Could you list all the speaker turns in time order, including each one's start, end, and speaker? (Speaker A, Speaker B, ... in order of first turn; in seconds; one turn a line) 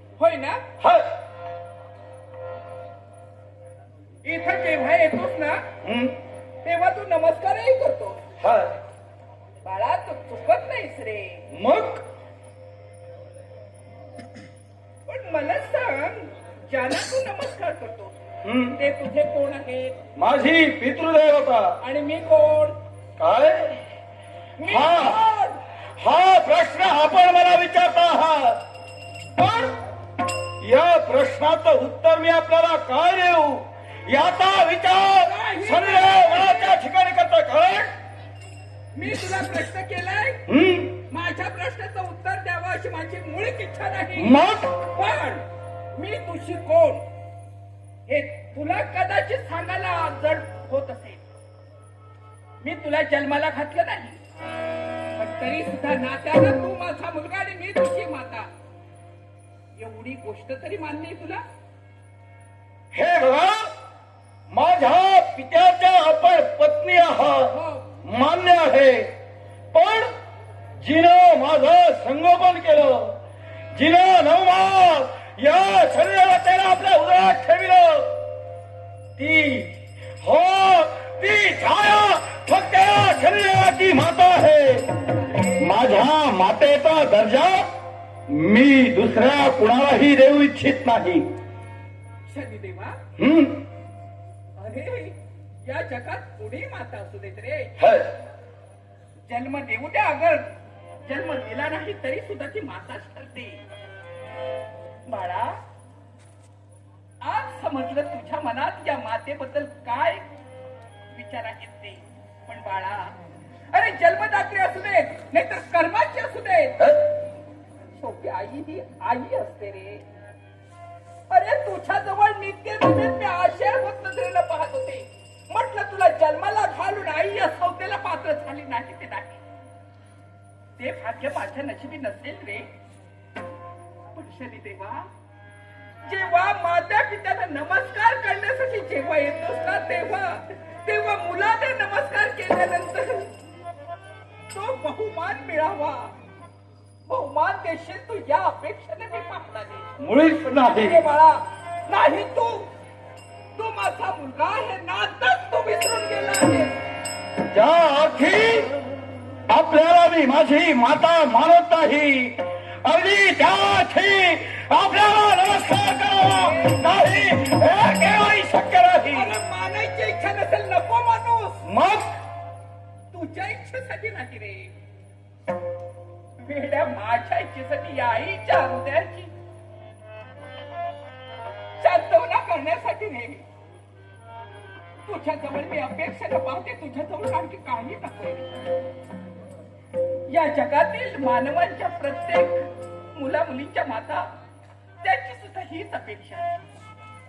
Speaker A: 0.2-0.6
Speaker B: 0.8-1.1
Speaker A: 4.2-5.6
Speaker B: 5.8-6.2
Speaker A: 6.6-8.2
Speaker B: 8.4-8.7
Speaker A: 9.6-11.4
Speaker B: 11.5-12.0
Speaker A: 15.1-18.1
Speaker B: 18.4-18.7
Speaker A: 18.7-20.0
Speaker B: 20.1-21.8
Speaker A: 21.8-22.8
Speaker B: 23.2-23.8
Speaker A: 24.6-25.6
Speaker B: 24.6-25.2
Speaker B: 26.0-28.6
Speaker B: 29.4-29.8
Speaker B: 30.6-37.9
Speaker A: 35.2-36.8
Speaker A: 38.9-40.4
Speaker B: 40.5-41.0
Speaker A: 41.1-45.4
Speaker B: 44.2-44.7
Speaker A: 46.0-47.0
Speaker A: 48.1-51.2
Speaker A: 52.6-54.2
Speaker A: 55.1-58.5
Speaker A: 59.8-61.4
Speaker B: 62.9-63.6
Speaker B: 64.5-67.5
Speaker A: 67.5-67.8
Speaker B: 68.0-69.1
Speaker B: 69.7-70.1
Speaker B: 70.8-73.1
Speaker B: 73.7-78.1
Speaker B: 79.2-84.9
Speaker A: 85.1-85.7
Speaker B: 85.6-87.7
Speaker B: 88.3-91.3
Speaker A: 92.3-93.0
Speaker B: 93.2-93.7
Speaker A: 94.6-97.8
Speaker B: 97.8-98.1
Speaker A: 99.3-100.5
Speaker A: 101.0-103.6
Speaker A: 105.1-105.6
Speaker A: 107.2-110.2
Speaker A: 111.1-113.2
Speaker A: 113.7-116.8
Speaker A: 117.9-120.0
Speaker A: 121.3-129.4
Speaker A: 130.8-132.7
Speaker A: 134.1-135.1
Speaker A: 136.0-143.3
Speaker A: 144.5-146.1
Speaker A: 147.1-149.9
Speaker B: 150.0-151.0
Speaker A: 150.5-152.7
Speaker A: 153.6-156.8
Speaker B: 157.5-158.7
Speaker B: 159.5-169.3
Speaker A: 166.3-166.8
Speaker A: 169.1-171.6
Speaker B: 171.6-172.1
Speaker A: 173.1-174.7
Speaker A: 176.4-179.3
Speaker A: 181.8-183.4
Speaker A: 185.1-188.6
Speaker A: 190.3-194.3
Speaker A: 195.0-196.5